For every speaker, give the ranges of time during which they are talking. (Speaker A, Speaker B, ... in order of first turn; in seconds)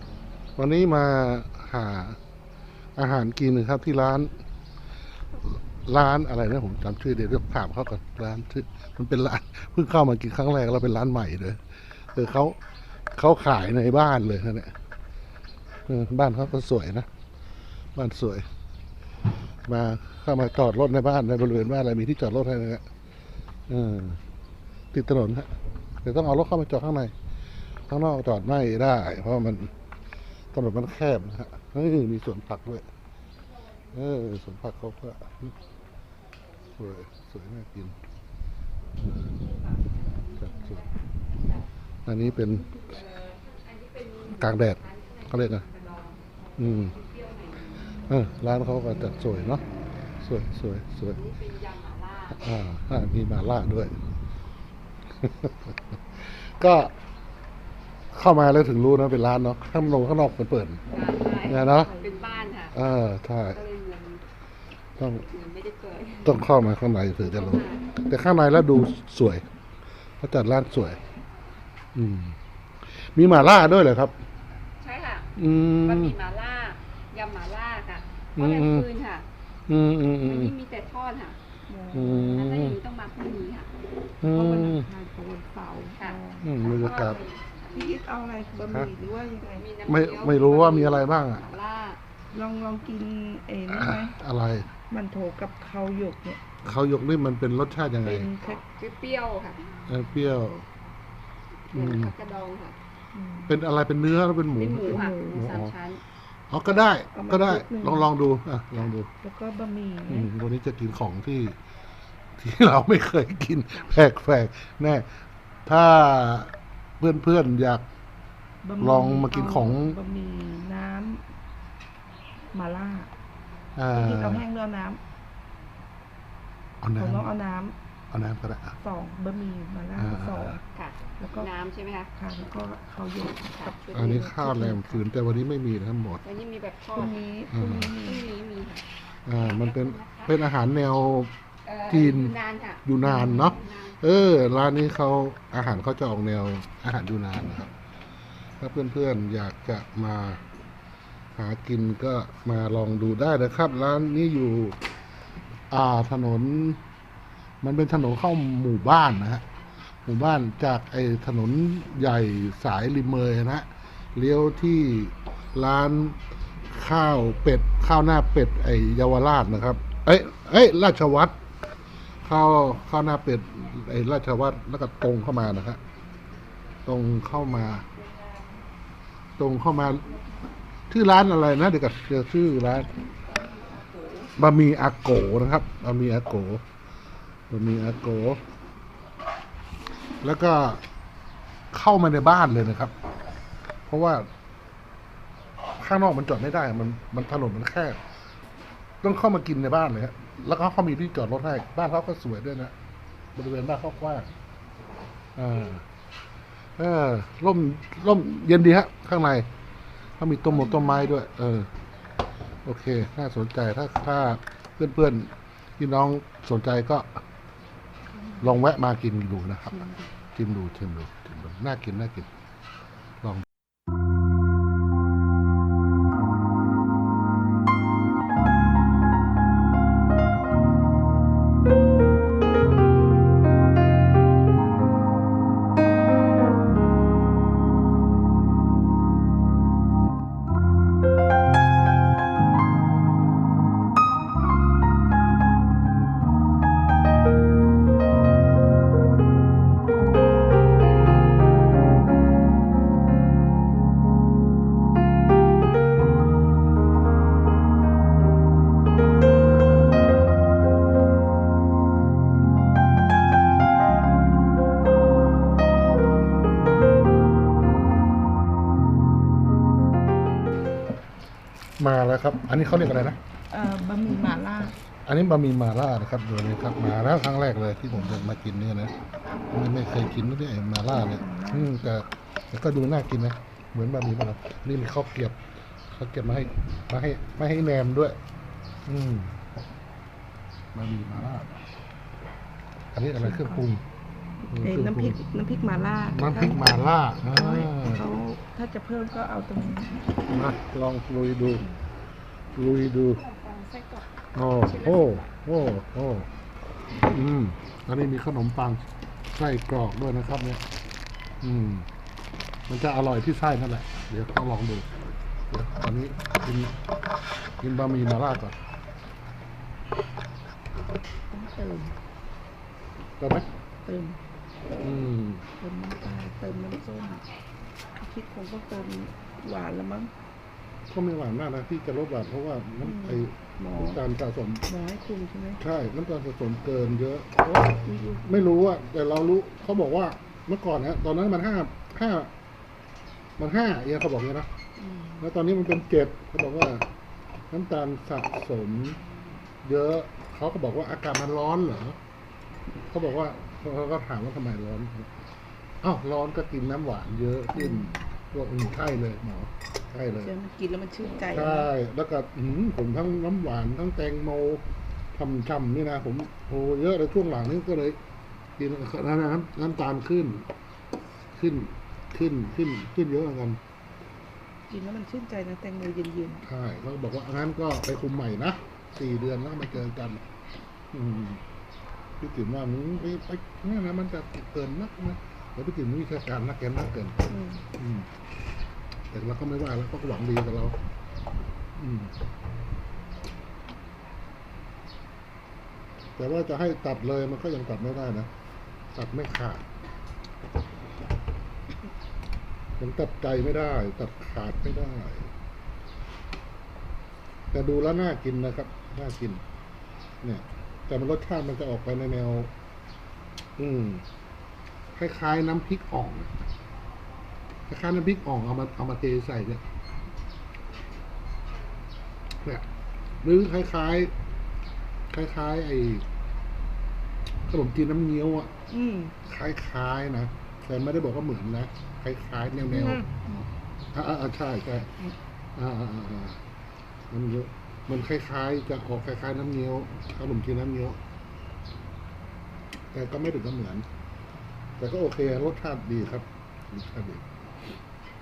Speaker A: 0.6-2.2, 3.0-4.3, 5.5-11.6, 12.1-12.6, 13.1-14.7, 15.9-17.1, 17.9-18.4, 19.6-22.8, 23.7-24.2, 24.9-25.5, 26.0-27.1, 27.9-29.7, 30.5-32.9, 33.9-35.5, 36.8-38.0, 39.0-39.4, 40.4-40.8, 42.1-42.7, 44.3-45.7, 46.6-47.0, 48.1-49.6, 50.2-51.2, 52.4-54.0, 55.2-56.9, 58.1-60.8, 61.5-61.9, 62.7-63.6, 65.0-65.3, 66.2-69.5, 70.2-71.0, 71.9-72.4, 73.0-74.2, 75.4-76.2, 78.4-78.9, 79.7-80.5, 81.9-82.8, 84.2-84.9, 86.4-87.2, 89.9-91.4, 93.7-94.7, 96.6-98.3, 99.9-100.7, 101.7-102.1, 103.5-105.7, 106.5-109.1, 110.1-111.6, 112.4-115.1, 115.7-117.9, 118.8-120.0, 123.8-124.4, 126.8-127.3, 128.1-128.8, 130.0-130.6, 133.9-136.2, 137.5-138.0, 139.2-141.3, 141.9-147.7, 148.6-150.4, 151.3-154.8, 155.7-156.8, 157.6-159.4, 160.1-171.4, 172.2-175.8, 176.8-177.8, 179.4-180.1, 180.9-182.9, 184.4-186.6, 187.5-188.4, 190.2-190.8, 191.7-192.9, 193.9-194.3, 195.8-198.0, 199.0-202.7, 203.3-204.3, 205.3-205.8, 206.8-209.5, 210.2-211.7, 212.6-217.2, 218.4-222.3, 271.8-273.2, 275.0-278.9, 279.5-285.4, 285.9-288.2, 288.9-289.3, 290.7-291.5, 292.9-293.8, 294.5-295.2, 296.1-298.1, 300.3-301.6, 302.6-303.2, 304.3-306.3, 307.0-310.6, 311.4-311.9, 312.7-314.9, 315.5-316.7, 317.6-318.6, 323.2-323.4, 324.8-325.4, 330.9-334.6, 335.6-342.3, 343.4-344.5, 345.2-346.9, 347.5-349.0, 349.6-352.0, 352.9-355.1, 355.8-360.3, 361.3-368.0, 368.6-370.5, 371.3-373.6, 376.4-380.2, 380.9-381.4, 382.2-388.1, 389.1-390.8, 391.8-392.1, 396.2-398.3, 398.9-399.6, 402.8-405.3, 407.5-409.4, 410.2-412.5, 413.6-414.0, 414.9-416.3, 417.7-419.6, 423.2-424.1, 425.1-426.0, 427.5-428.5, 429.2-433.1, 433.9-434.9, 435.5-436.4, 437.1-441.0, 442.9-443.9, 444.8-447.2
Speaker B: 42.7-47.7, 51.1-52.4, 60.9-62.8, 63.5-64.2, 65.3-66.4, 67.2-67.9, 74.8-79.3, 80.2-81.4, 82.1-83.7, 86.0-88.0, 89.5-92.0, 98.5-99.7, 101.7-102.8, 104.5-106.0, 130.7-132.1, 133.5-134.0, 136.2-137.2, 137.9-138.8, 139.3-140.3, 141.7-144.0, 303.2-304.0, 304.7-305.2
Speaker C: 61.7-62.1, 81.7-82.3, 84.3-86.5, 87.7-89.7, 92.3-94.2, 94.9-96.4, 98.0-98.6, 103.1-103.5, 104.8-105.6, 107.1-108.1, 109.2-110.3, 118.6-121.2, 122.5-123.1, 123.9-125.0, 127.0-127.8, 128.8-130.6, 131.2-131.5, 132.2-135.0, 136.9-138.3, 143.0-143.6, 210.5-211.1, 218.2-218.5, 219.7-220.1, 273.5-274.8, 280.9-281.7, 293.2-293.6, 294.5-296.6, 297.2-300.1, 321.3-322.0, 323.8-324.2, 325.6-327.2, 327.9-330.1, 332.8-334.0, 334.6-335.6, 337.5-338.2, 344.8-345.2, 357.5-357.9, 360.2-361.7, 374.7-376.4, 387.3-387.7, 428.7-429.1, 432.7-433.4